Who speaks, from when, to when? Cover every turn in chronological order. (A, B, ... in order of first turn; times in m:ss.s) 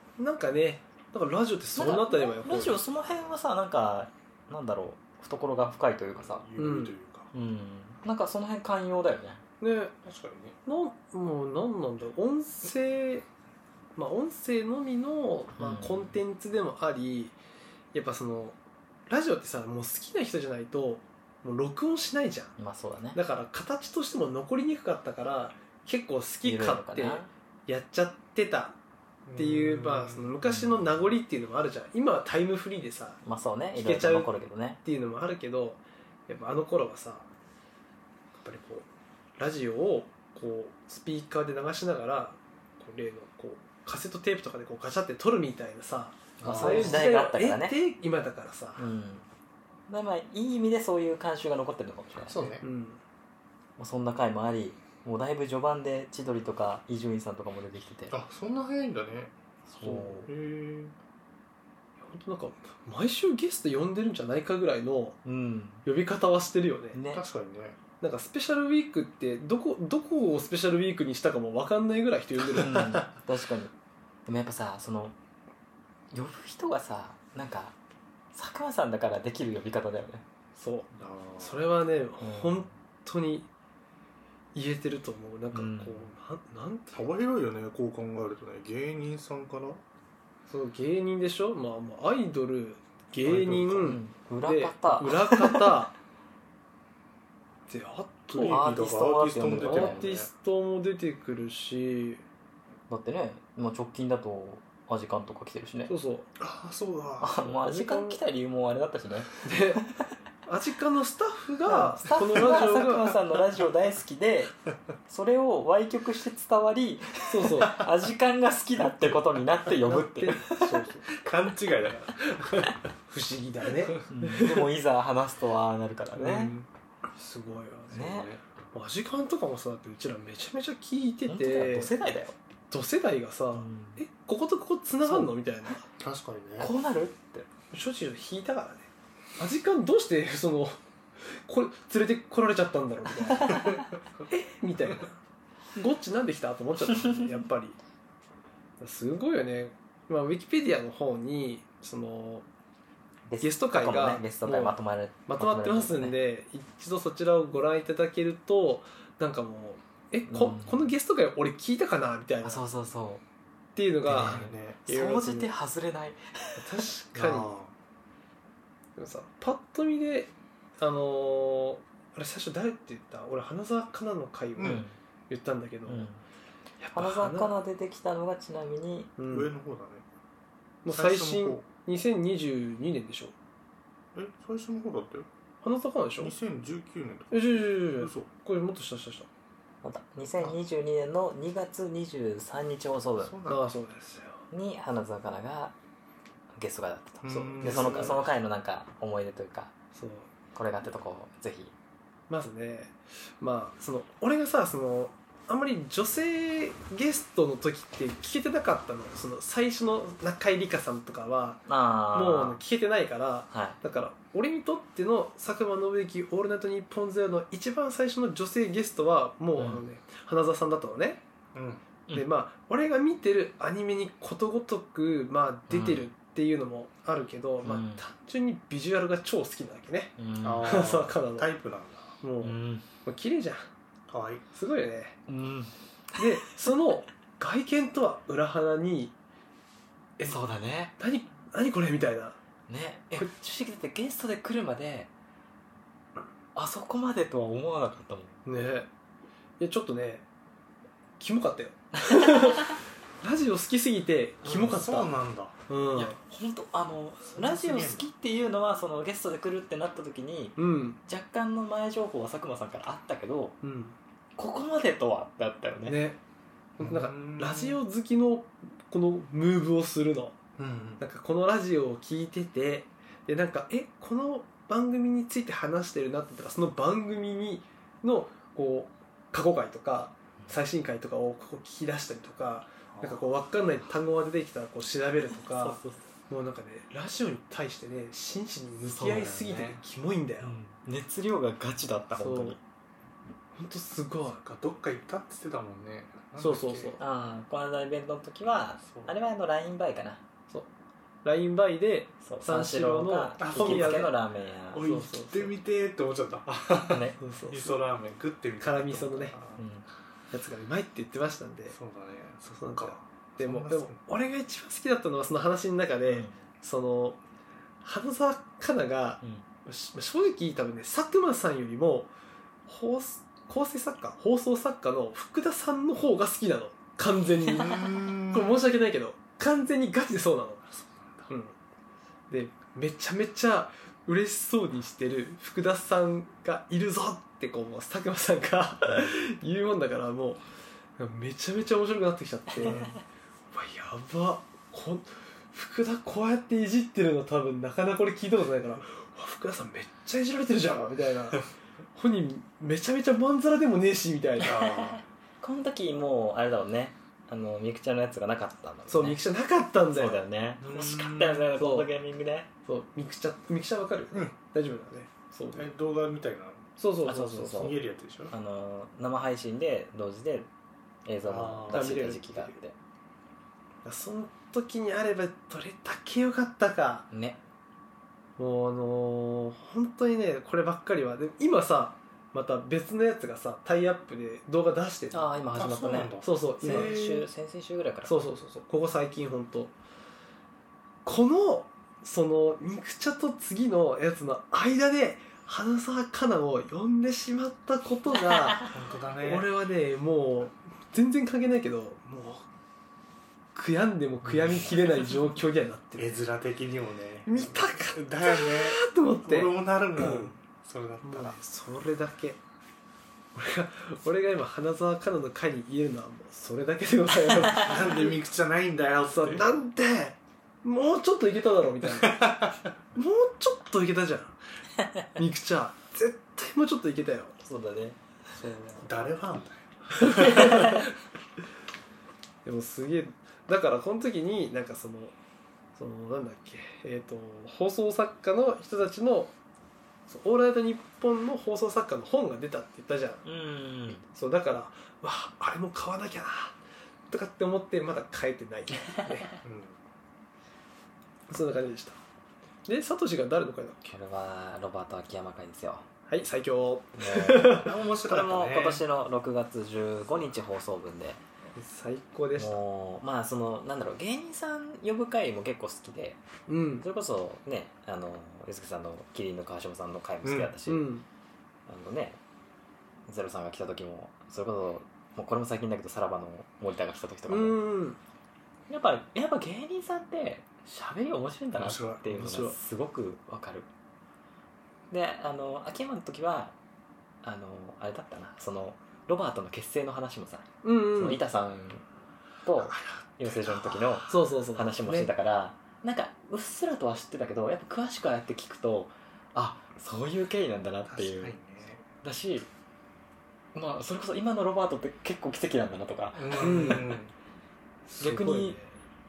0:00.2-0:02.8 A
0:01.8-0:06.5 B
0:06.1-0:07.3 C
0:06.6-0:06.9 A
0:07.3-0:09.4 B
0:09.6-0:09.9 A
0:10.0-0:10.6 C
0:10.7-0:13.3 A
0:14.0-0:17.4 A
0:15.6-0:16.2 B
0:17.9-0:18.6 A
0:19.1-0:22.5 A
0:22.6-0:23.2 B
0:23.1-0:28.8 A
0:26.4-0:27.3 B
0:29.3-0:30.3 C
0:29.4-0:33.2 A
0:30.5-0:30.8 B
0:33.2-0:34.8 B
0:33.8-0:34.3 A
0:34.8-0:37.2 A
0:38.4-0:38.9 A
0:39.4-0:48.8 A
0:46.4-0:47.8 B
0:46.4-0:47.1 C
0:48.8-0:49.2 B
0:49.9-0:52.5 B
0:52.3-0:52.6 C
0:52.6-0:53.0 A
0:53.8-0:58.2 B
0:58.1-0:59.3 C
0:59.7-1:00.3 B
0:59.8-1:00.3 A
1:00.3-1:00.9 C
1:02.0-1:05.2 A
1:05.2-1:05.8 B
1:05.8-1:07.0 A
1:06.9-1:07.2 B
1:07.1-1:07.8 C
1:08.0-1:13.1 A
1:12.5-1:13.7 B
1:14.3-1:15.2 B
1:16.1-1:17.8 B
1:18.3-1:20.2 B
1:20.6-1:23.5 A
1:21.0-1:21.6 C
1:22.2-1:22.6 B
1:24.6-1:27.1 A
1:25.5-1:26.1 B
1:26.9-1:29.8 C
1:30.5-1:35.9 A
1:33.2-1:33.9 C
1:33.8-1:35.8 B
1:37.7-1:38.6 A
1:38.3-1:40.3 C
1:38.5-1:40.1 B
1:39.6-1:42.2 A
1:42.9-1:45.9 B
1:45.9-1:46.3 A
1:46.4-1:47.4 C
1:47.2-1:50.0 B
1:47.4-1:48.2 A
1:49.4-1:49.8 A
1:50.5-1:53.2 A
1:51.7-1:54.5 B
1:55.1-2:00.8 B
1:57.3-1:57.9 A
1:59.8-2:01.1 A
2:01.1-2:02.7 C
2:02.5-2:04.7 A
2:04.1-2:06.5 B
2:06.2-2:06.7 C
2:07.2-2:08.2 A
2:07.9-2:08.3 B
2:07.9-2:08.4 C
2:08.7-2:11.9 A
2:11.3-2:12.4 B
2:12.7-2:15.9 A
2:13.5-2:14.0 B
2:15.1-2:15.3 B
2:16.0-2:16.7 C
2:16.6-2:17.5 B
2:17.7-2:25.2 A
2:23.5-2:23.9 C
2:25.8-2:27.8 A
2:28.8-2:32.5 A
2:33.3-2:36.2 B
2:33.4-2:42.6 A
2:40.3-2:40.9 B
2:42.4-2:43.2 B
2:43.8-2:45.5 A
2:44.1-2:46.8 B
2:44.1-2:44.8 C
2:46.6-2:47.5 A
2:47.2-2:47.7 C
2:49.0-2:56.1 A
2:54.6-2:54.8 C
2:54.6-2:55.0 B
2:55.9-2:56.2 B
2:56.8-2:57.5 A
2:57.0-2:59.2 B
2:59.2-2:59.5 A
2:59.3-3:00.1 C
3:00.8-3:03.4 A
3:00.9-3:01.7 C
3:04.1-3:05.3 C
3:05.6-3:06.3 A
3:06.2-3:08.3 C
3:07.3-3:09.3 A
3:09.8-3:13.4 B
3:13.2-3:13.6 C
3:13.5-3:14.4 A
3:14.5-3:15.8 B
3:16.6-3:19.7 B
3:17.2-3:18.2 C
3:17.3-3:18.2 A
3:20.0-3:20.3 A
3:20.5-3:21.7 B
3:22.3-3:41.2 A
3:31.7-3:32.6 B
3:33.5-3:33.8 B
3:41.5-3:41.8 C
3:42.1-3:51.5 A
3:45.7-3:46.1 B
3:47.6-3:48.0 B
3:50.2-3:50.8 B
3:50.4-3:52.2 C
3:52.2-3:53.7 A
3:52.4-3:52.9 B
3:54.1-3:54.4 C
3:54.5-3:55.2 A
3:55.3-3:56.2 B
3:56.2-3:59.2 A
4:00.3-4:00.9 B
4:01.0-4:02.4 A
4:02.7-4:05.1 B
4:06.6-4:08.4 B
4:08.5-4:08.9 A
4:09.6-4:10.2 A
4:11.2-4:15.1 A
4:12.1-4:12.7 B
4:14.4-4:15.6 C
4:15.7-4:16.2 A
4:15.9-4:23.6 B
4:17.3-4:18.0 C
4:20.6-4:21.0 A
4:23.6-4:24.0 A
4:24.4-4:26.0 B
4:25.9-4:26.2 A
4:26.8-4:30.4 A
4:26.8-4:27.8 C
4:30.6-4:31.0 C
4:31.0-4:45.8 A
4:42.9-4:43.2 C
4:45.4-4:46.0 B
4:46.3-4:50.6 A
4:48.9-4:49.8 C
4:50.4-4:52.6 B
4:52.2-4:52.6 A
4:53.6-4:54.4 A
4:54.4-4:57.0 C
4:56.4-4:57.0 A
4:57.0-5:00.2 B
4:58.8-4:59.1 C
5:01.2-5:04.1 A
5:02.2-5:04.8 B
5:03.4-5:04.2 C
5:04.7-5:09.6 C
5:04.8-5:05.5 A
5:06.9-5:07.2 B
5:07.2-5:07.8 A
5:08.6-5:09.4 A
5:09.6-5:09.8 B
5:10.3-5:11.8 A
5:11.7-5:14.0 C
5:12.5-5:17.2 A
5:16.1-5:16.3 B
5:17.8-5:22.1 A
5:22.7-5:30.6 A
5:27.5-5:28.6 C
5:30.7-5:31.3 C
5:31.3-5:31.6 A
5:32.3-5:40.4 A
5:41.0-5:42.9 A
5:42.6-5:43.0 C
5:42.6-5:42.9 B
5:43.5-5:54.7 A
5:54.4-5:55.0 C
5:54.6-5:59.2 B
5:58.9-6:00.2 A
5:59.9-6:02.5 B
6:00.6-6:01.5 C
6:01.5-6:01.9 A
6:02.7-6:05.7 A
6:05.5-6:06.7 C
6:06.8-6:07.7 A
6:07.0-6:07.8 B
6:07.4-6:08.3 C
6:08.3-6:10.5 B
6:11.0-6:12.8 B
6:11.2-6:12.0 C
6:11.7-6:12.5 A
6:13.8-6:17.1 A
6:17.1-6:17.4 B
6:18.4-6:27.0 A
6:25.1-6:28.3 B
6:25.5-6:27.3 C
6:28.0-6:29.7 A
6:31.0-6:42.5 A
6:38.6-6:39.5 C
6:43.6-6:46.2 A
6:46.0-6:51.4 C
6:47.3-6:50.3 A
6:51.0-6:52.4 A
6:53.4-6:58.1 A
6:57.6-6:59.5 C
6:59.1-7:02.4 A
7:01.8-7:02.7 C
7:03.0-7:04.4 A
7:05.2-7:07.4 A
7:07.4-7:08.0 B
7:08.4-7:08.9 A
7:08.8-7:10.9 C
7:10.0-7:10.8 A
7:12.4-7:15.2 A
7:15.8-7:19.4 A
7:20.1-7:23.2 A
7:23.2-7:24.0 B
7:24.0-7:26.6 A
7:27.1-7:29.3 A
7:29.4-7:29.8 C
7:31.3-7:32.0 A
7:32.7-7:33.8 A
7:33.8-7:35.8 B
7:36.1-7:37.7 A
7:37.0-7:41.2 B
7:37.6-7:38.8 C
7:41.6-7:42.6 A
7:42.4-7:46.2 B
7:46.5-7:46.9 A
7:46.8-7:50.9 B
7:50.2-7:50.6 C
7:50.7-7:51.0 A
7:51.7-7:52.2 B
7:53.1-7:57.6 B
7:57.3-7:58.0 A
7:58.7-8:03.7 B
8:01.5-8:02.4 C
8:02.1-8:02.6 A
8:04.9-8:06.5 B
8:07.2-8:11.8 B
8:10.6-8:11.2 A
8:12.4-8:21.4 B
8:12.6-8:14.1 C
8:14.1-8:15.1 A
8:20.9-8:21.9 C
8:22.0-8:22.5 B
8:23.6-8:26.9 B
8:26.2-8:27.1 C
8:26.4-8:27.0 A
8:27.9-8:28.7 A
8:28.0-8:28.6 B